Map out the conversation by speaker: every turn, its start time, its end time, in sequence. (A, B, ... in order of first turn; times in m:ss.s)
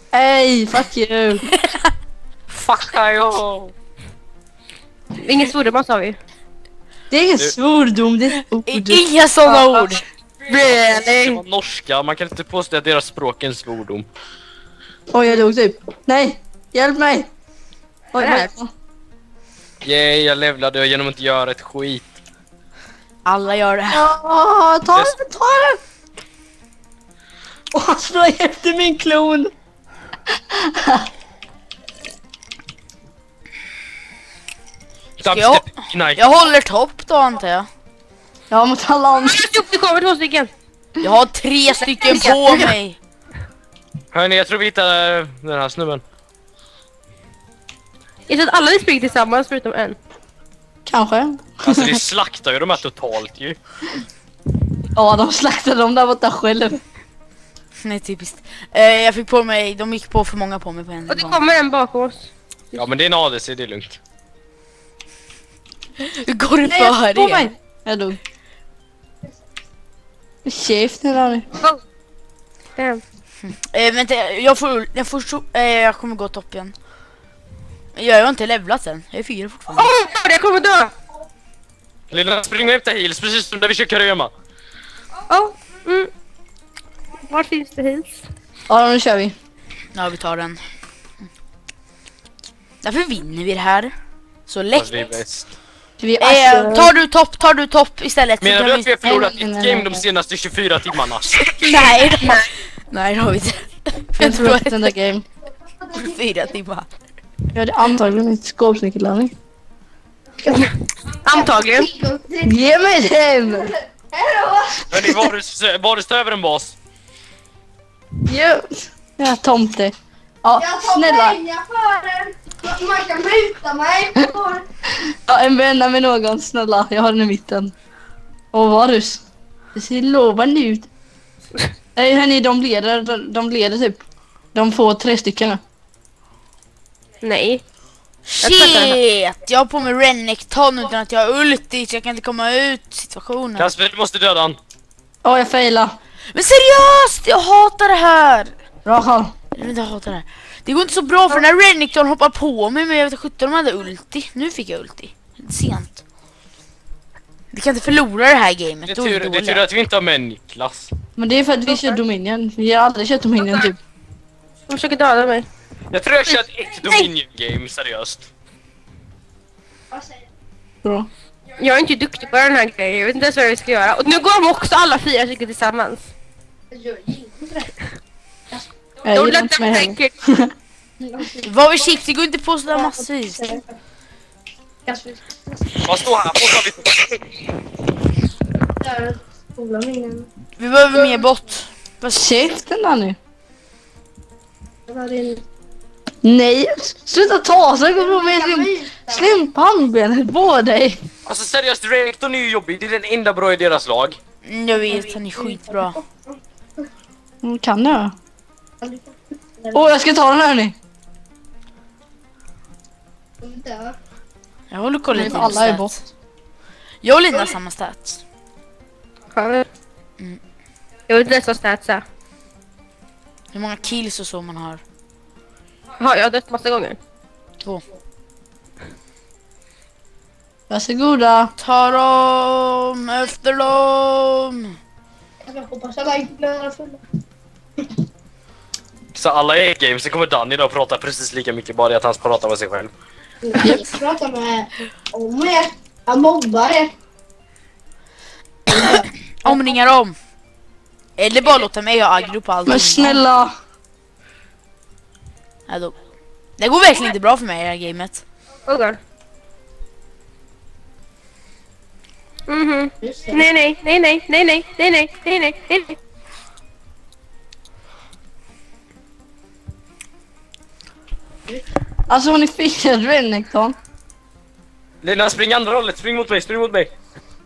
0:00.1-0:01.4 A
0:01.5-0:01.9 B
0:02.5-0:03.7 C
0:05.2-0:06.2 D
0:07.1-0:09.0 A
0:08.5-0:10.0 B
0:09.4-0:11.4 D
0:11.0-0:14.1 C
0:15.1-0:17.3 A
0:18.1-0:18.7 A
0:18.2-0:18.5 D
0:19.8-0:22.0 C
0:23.2-0:24.1 B
0:23.9-0:25.8 A
0:27.7-0:29.5 A
0:30.5-0:31.1 A
0:35.2-0:36.2 C
0:35.2-0:37.7 B
0:38.5-0:39.4 A
0:39.2-0:40.5 D
0:41.0-0:43.0 B
0:42.0-0:42.7 D
0:44.1-0:46.0 C
0:48.3-0:50.0 D
0:50.8-0:52.0 A
0:51.6-0:53.6 C
0:54.9-0:56.8 A
0:57.8-1:01.4 B
1:01.1-1:02.8 D
1:02.7-1:04.0 C
1:06.0-1:07.5 B
1:06.6-1:08.2 A
1:10.4-1:11.4 A
1:12.8-1:13.0 D
1:13.4-1:16.7 B
1:17.9-1:19.9 B
1:19.7-1:20.9 D
1:22.1-1:24.3 C
1:25.3-1:26.1 D
1:27.2-1:28.1 D
1:28.7-1:29.3 A
1:29.9-1:30.6 B
1:32.8-1:33.9 B
1:34.5-1:35.2 B
1:34.7-1:35.4 C
1:36.0-1:36.9 A
1:36.2-1:39.0 B
1:38.4-1:41.4 C
1:39.0-1:40.0 A
1:41.4-1:44.9 B
1:44.2-1:45.2 A
1:45.8-1:46.1 E
1:45.9-1:46.9 B
1:47.5-1:49.3 A
1:50.4-1:50.7 E
1:51.2-1:51.9 D
1:51.3-1:52.6 E
1:52.4-1:53.7 A
1:53.6-1:54.9 E
1:54.9-1:56.8 C
1:55.0-1:55.2 A
1:58.2-2:01.4 A
2:00.6-2:04.6 E
2:05.3-2:07.7 A
2:08.5-2:09.2 A
2:09.7-2:10.9 A
2:11.9-2:14.0 A
2:14.5-2:15.6 A
2:17.2-2:17.6 D
2:18.3-2:23.7 B
2:18.4-2:19.0 D
2:23.6-2:24.6 C
2:25.2-2:26.0 A
2:26.3-2:28.5 B
2:28.8-2:29.3 A
2:29.5-2:36.0 B
2:37.5-2:39.6 B
2:38.8-2:40.9 C
2:41.2-2:43.8 A
2:44.7-2:45.5 D
2:45.9-2:48.3 C
2:46.3-2:47.1 D
2:49.9-2:50.2 E
2:51.6-2:56.1 D
2:56.7-2:57.7 E
2:59.0-3:00.5 A
2:59.1-3:00.1 D
3:01.0-3:01.4 E
3:01.4-3:03.6 B
3:02.7-3:03.6 E
3:04.8-3:05.8 E
3:05.8-3:07.2 C
3:08.8-3:10.3 E
3:10.6-3:12.2 B
3:10.9-3:11.2 E
3:12.1-3:13.2 A
3:14.9-3:15.4 E
3:16.2-3:21.0 A
3:17.9-3:19.3 E
3:21.2-3:24.2 C
3:24.4-3:26.0 B
3:24.8-3:26.4 E
3:27.4-3:28.1 A
3:28.8-3:29.8 E
3:29.7-3:30.7 A
3:33.4-3:34.0 E
3:34.7-3:36.0 B
3:35.1-3:36.0 A
3:37.0-3:38.2 B
3:39.3-3:39.7 D
3:41.1-3:42.0 D
3:43.5-3:44.8 B
3:46.0-3:47.0 D
3:50.7-3:51.5 A
3:51.6-3:54.8 B
3:55.4-3:57.0 E
3:59.1-4:02.9 C
4:03.4-4:06.9 E
4:03.6-4:03.8 A
4:08.7-4:10.2 B
4:11.2-4:13.2 B
4:12.6-4:13.5 A
4:15.7-4:15.9 B
4:16.6-4:18.2 B
4:18.7-4:19.0 D
4:22.5-4:26.0 D
4:23.0-4:23.4 E
4:32.1-4:33.7 A
4:35.0-4:36.9 C